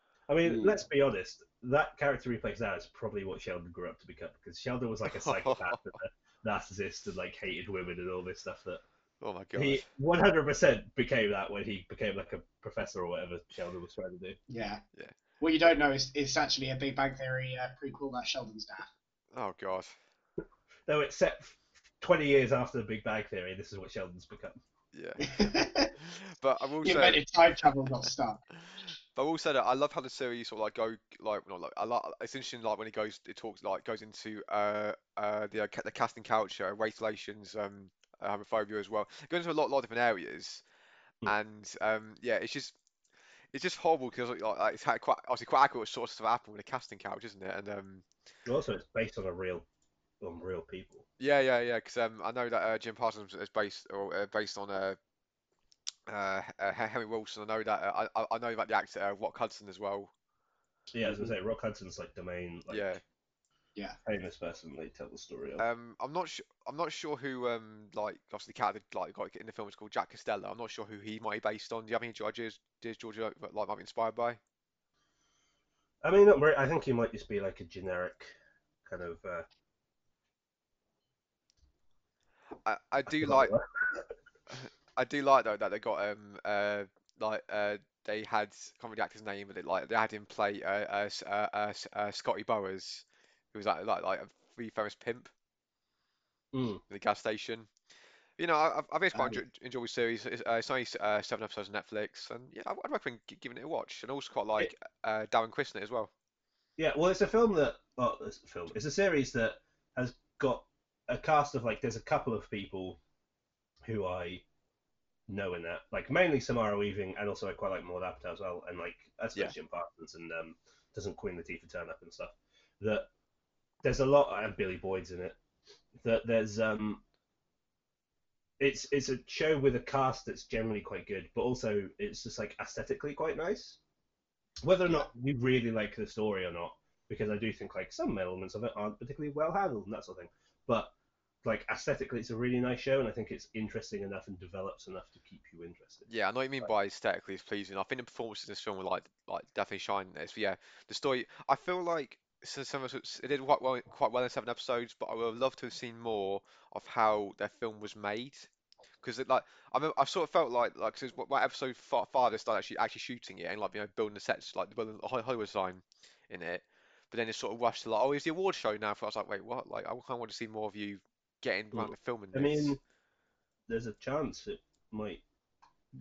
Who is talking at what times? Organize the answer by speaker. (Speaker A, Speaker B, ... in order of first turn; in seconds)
Speaker A: 0.3-8.8, 9.6-14.4, 20.9-24.6, 48.5-49.7, 50.2-51.1, 60.9-63.0, 64.0-65.6, 76.0-79.5, 83.1-84.0, 96.5-96.8, 106.8-113.0, 113.8-114.4, 115.3-123.1, 123.8-125.4, 126.0-127.0, 128.6-133.8, 134.6-146.1, 171.7-172.8, 173.7-175.2
Speaker B: 5.1-5.8, 9.2-9.8, 19.3-20.0, 24.9-27.3, 29.1-40.6, 41.2-42.7, 43.5-48.1, 51.2-55.0, 56.1-60.1, 62.7-63.0, 65.6-74.4, 82.7-83.6, 84.5-95.3, 96.9-97.7, 98.4-106.1, 146.1-158.5, 159.0-172.8
Speaker C: 14.5-14.8, 15.4-18.9, 25.2-25.9, 26.8-28.4, 99.1-99.4